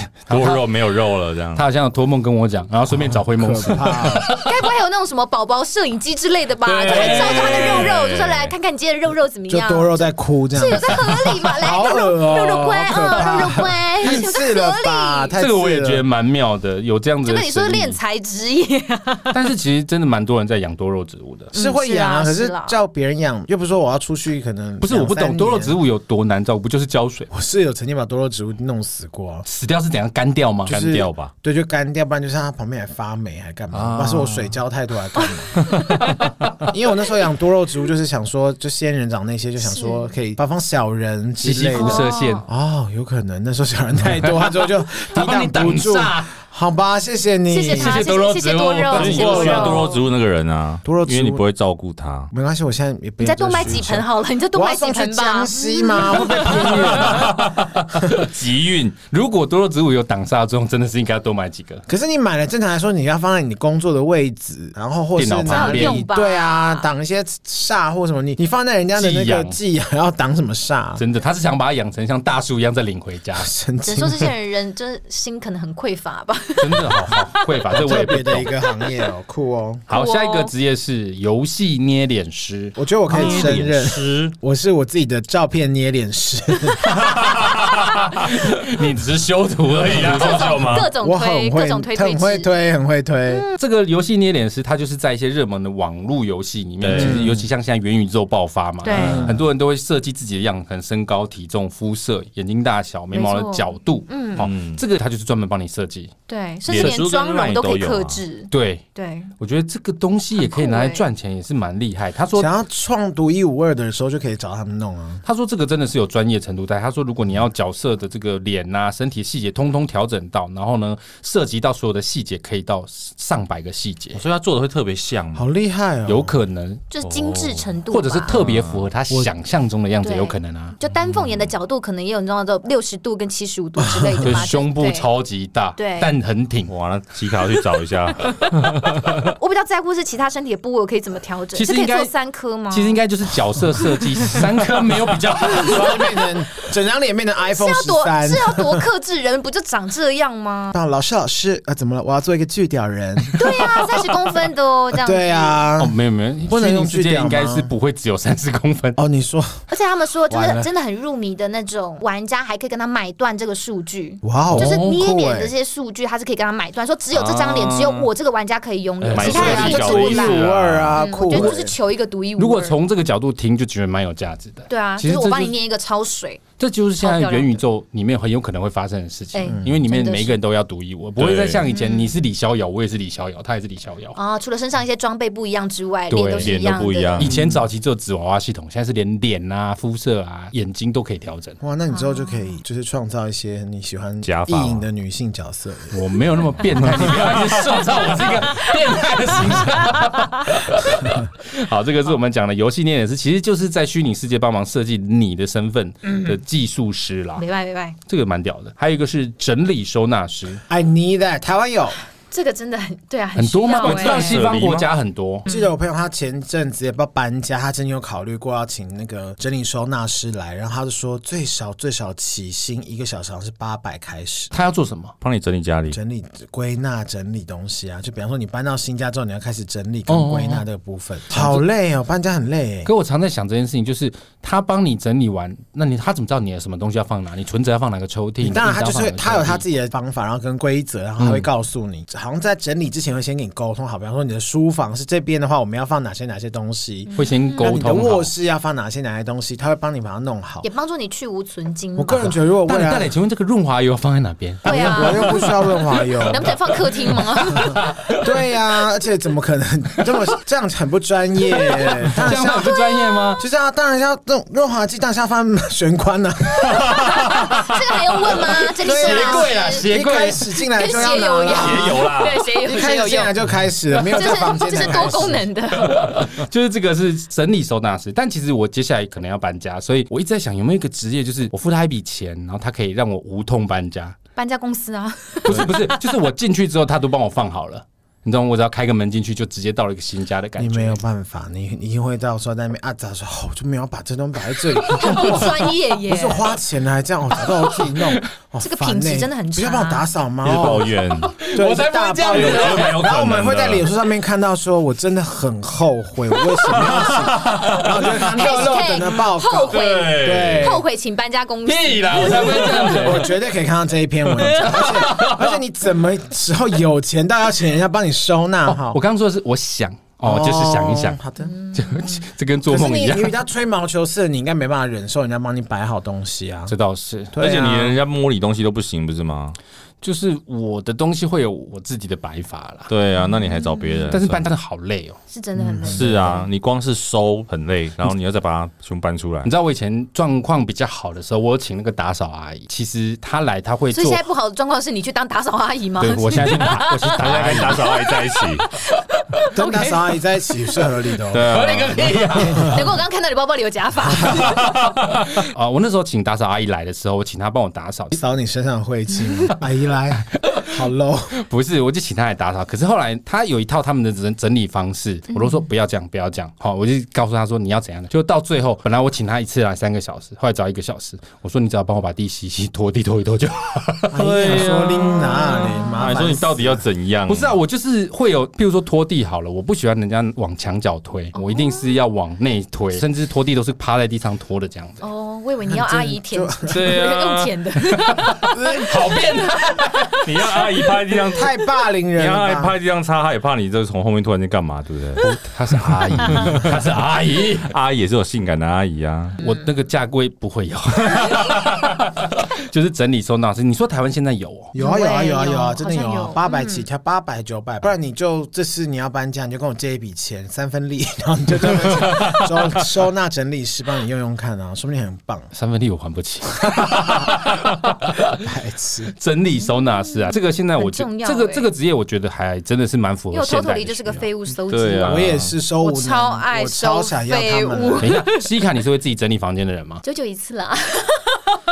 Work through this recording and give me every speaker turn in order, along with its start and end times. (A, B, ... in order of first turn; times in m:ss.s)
0:00.3-0:00.6 A
0:00.3-0:01.6 B
0:01.5-0:04.4 A
0:02.9-0:04.3 C
0:04.3-0:15.3 D
0:06.6-0:08.5 B
0:06.9-0:07.9 A
0:09.5-0:16.0 C
0:15.4-0:18.0 A
0:17.2-0:19.3 D
0:19.3-0:21.5 A
0:21.5-0:22.8 D
0:21.5-0:25.8 C
0:24.8-0:27.3 A
0:27.3-0:29.5 C
0:29.5-0:30.8 A
0:30.7-0:35.7 C
0:30.7-0:31.3 B
0:33.7-0:34.6 B
0:35.2-0:36.1 D
0:36.7-0:48.1 C
0:39.6-0:40.1 D
0:41.4-0:42.4 A
0:41.7-0:42.5 D
0:44.2-0:46.3 A
0:47.5-0:50.0 D
0:47.7-0:49.9 A
0:48.9-0:52.3 B
0:49.1-0:49.9 C
0:50.8-0:51.4 C
0:52.3-0:57.4 C
0:53.2-0:56.8 D
0:56.3-0:59.0 B
0:56.5-0:58.3 A
0:59.1-1:01.8 A
1:01.9-1:11.0 C
1:05.2-1:06.0 A
1:05.5-1:06.9 D
1:08.9-1:09.6 A
1:11.0-1:13.5 A
1:13.4-1:14.3 C
1:13.8-1:17.4 D
1:16.6-1:18.5 A
1:17.7-1:19.8 C
1:19.9-1:23.6 A
1:19.9-1:20.5 D
1:22.8-1:27.0 C
1:23.1-1:24.3 B
1:26.7-1:27.9 D
1:27.0-1:27.9 B
1:27.1-1:30.8 A
1:29.7-1:30.9 B
1:30.1-1:32.5 D
1:31.0-1:33.4 C
1:33.3-1:33.5 D
1:33.6-1:46.1 A
1:36.8-1:37.4 B
1:36.9-1:37.4 C
1:38.8-1:39.3 D
1:38.9-1:39.4 C
1:38.9-1:39.4 B
1:43.1-1:44.5 D
1:44.4-1:44.8 B
1:46.3-1:49.3 D
1:46.7-1:48.2 B
1:48.5-1:48.8 A
1:49.4-1:52.5 A
1:50.4-1:51.0 D
1:52.3-1:55.2 C
1:55.2-2:04.2 A
2:04.1-2:05.4 B
2:05.3-2:06.3 C
2:06.0-2:06.8 A
2:06.9-2:08.4 D
2:07.0-2:07.7 B
2:07.9-2:10.8 A
2:08.3-2:08.9 B
2:10.0-2:15.1 D
2:11.1-2:11.5 B
2:13.8-2:14.4 C
2:14.2-2:16.7 A
2:15.8-2:16.1 D
2:16.7-2:19.2 B
2:18.2-2:23.0 D
2:21.5-2:22.1 A
2:22.7-2:26.1 A
2:25.5-2:26.0 D
2:25.5-2:28.8 C
2:27.5-2:30.8 D
2:30.7-2:33.8 C
2:33.3-2:35.6 D
2:34.9-2:35.9 C
2:35.8-2:39.0 A
2:36.5-2:37.7 C
2:39.0-2:39.6 C
2:39.7-2:52.8 D
2:40.3-2:40.7 C
2:44.2-2:45.5 C
2:44.5-2:45.0 A
2:47.1-2:48.1 B
2:49.0-2:51.6 A
2:49.1-2:50.9 B
2:49.2-2:51.7 C
2:52.4-2:55.5 A
2:54.7-2:56.4 D
2:56.6-3:04.2 A
2:57.0-2:57.6 D
2:59.3-3:00.4 D
3:01.2-3:01.6 B
3:01.7-3:02.1 D
3:04.1-3:07.3 D
3:06.1-3:06.6 A
3:06.4-3:07.4 B
3:07.2-3:11.6 A
3:11.6-3:16.0 C
3:11.9-3:12.5 D
3:14.2-3:14.8 B
3:15.9-3:27.4 A
3:17.0-3:17.2 B
3:19.6-3:20.2 D
3:26.1-3:26.3 D
3:27.4-3:28.0 D
3:28.1-3:30.6 A
3:30.7-3:32.0 C
3:32.3-3:34.4 D
3:33.4-3:35.4 A
3:33.8-3:34.9 B
3:35.5-3:35.7 D
3:35.5-3:44.5 C
3:44.5-3:45.1 A
3:45.2-3:46.0 B
3:45.9-3:52.9 C
3:50.1-3:50.6 A
3:51.3-3:51.6 A
3:52.8-3:59.6 A
3:58.4-4:10.7 C
4:01.2-4:01.5 A
4:07.1-4:07.7 D
4:07.2-4:08.3 A
4:10.6-4:12.4 D
4:12.0-4:13.1 C
4:12.6-4:18.3 A
4:14.6-4:15.5 D
4:14.6-4:16.6 C
4:16.2-4:17.8 D
4:17.6-4:22.8 C
4:21.6-4:23.4 A
4:22.5-4:23.3 D
4:23.4-4:27.3 C
4:26.6-4:29.9 D
4:27.2-4:30.5 A
4:28.8-4:35.4 C
4:30.7-4:33.4 D
4:31.5-4:32.4 B
4:34.0-4:36.1 D
4:35.7-4:44.2 A
4:44.4-4:46.1 D
4:45.4-4:51.0 A
4:50.6-5:00.9 C
4:54.9-4:56.5 D
4:57.5-4:58.2 A
4:58.6-5:00.1 D
5:00.4-5:01.3 B
5:01.2-5:03.1 A
5:01.5-5:10.8 C
5:02.3-5:03.8 B
5:06.7-5:08.0 B
5:06.7-5:09.1 A
5:08.3-5:12.9 D
5:09.7-5:10.8 B
5:11.6-5:13.3 A
5:12.1-5:19.0 C
5:14.4-5:15.6 A
5:18.6-5:21.2 A
5:20.2-5:21.5 C
5:21.4-5:22.2 D
5:21.7-5:23.3 A
5:22.7-5:26.7 C
5:26.7-5:27.3 A
5:27.3-5:28.0 C
5:27.4-5:29.6 B
5:30.0-5:32.9 A
5:32.9-5:34.4 B
5:33.5-5:34.1 D
5:34.1-5:35.2 A
5:35.3-5:36.4 D
5:35.6-5:36.2 C
5:35.9-5:39.5 B
5:39.4-5:44.2 A
5:43.9-5:50.0 D
5:46.0-5:47.9 A
5:47.2-5:48.7 B
5:49.5-5:51.6 C
5:51.3-5:52.6 B
5:51.5-5:52.8 A
5:52.3-5:52.8 C
5:52.4-5:54.7 D
5:54.5-5:58.1 A
5:58.1-6:01.4 C
6:00.3-6:00.8 A
6:01.4-6:14.7 A
6:14.1-6:16.8 C
6:14.1-6:17.5 B
6:15.3-6:16.2 D
6:17.3-6:25.0 A
6:21.3-6:22.0 D
6:25.0-6:30.2 D
6:25.7-6:26.9 C
6:26.7-6:27.5 B
6:27.9-6:30.2 A
6:28.5-6:29.0 C
6:30.2-6:31.5 B
6:31.3-6:32.8 C
6:32.1-6:35.2 B
6:35.2-6:37.7 A
6:35.8-6:36.8 B
6:37.7-6:39.4 B
6:39.4-6:44.7 A
6:44.7-6:55.5 C
6:44.8-6:46.8 D
6:55.5-6:58.4 A
6:56.7-6:57.4 C
6:58.4-6:59.1 C
6:59.1-7:04.3 A
7:00.0-7:01.7 D
7:03.3-7:08.4 D
7:04.7-7:05.5 B
7:05.0-7:08.1 C
7:08.0-7:10.0 A
7:10.0-7:11.6 D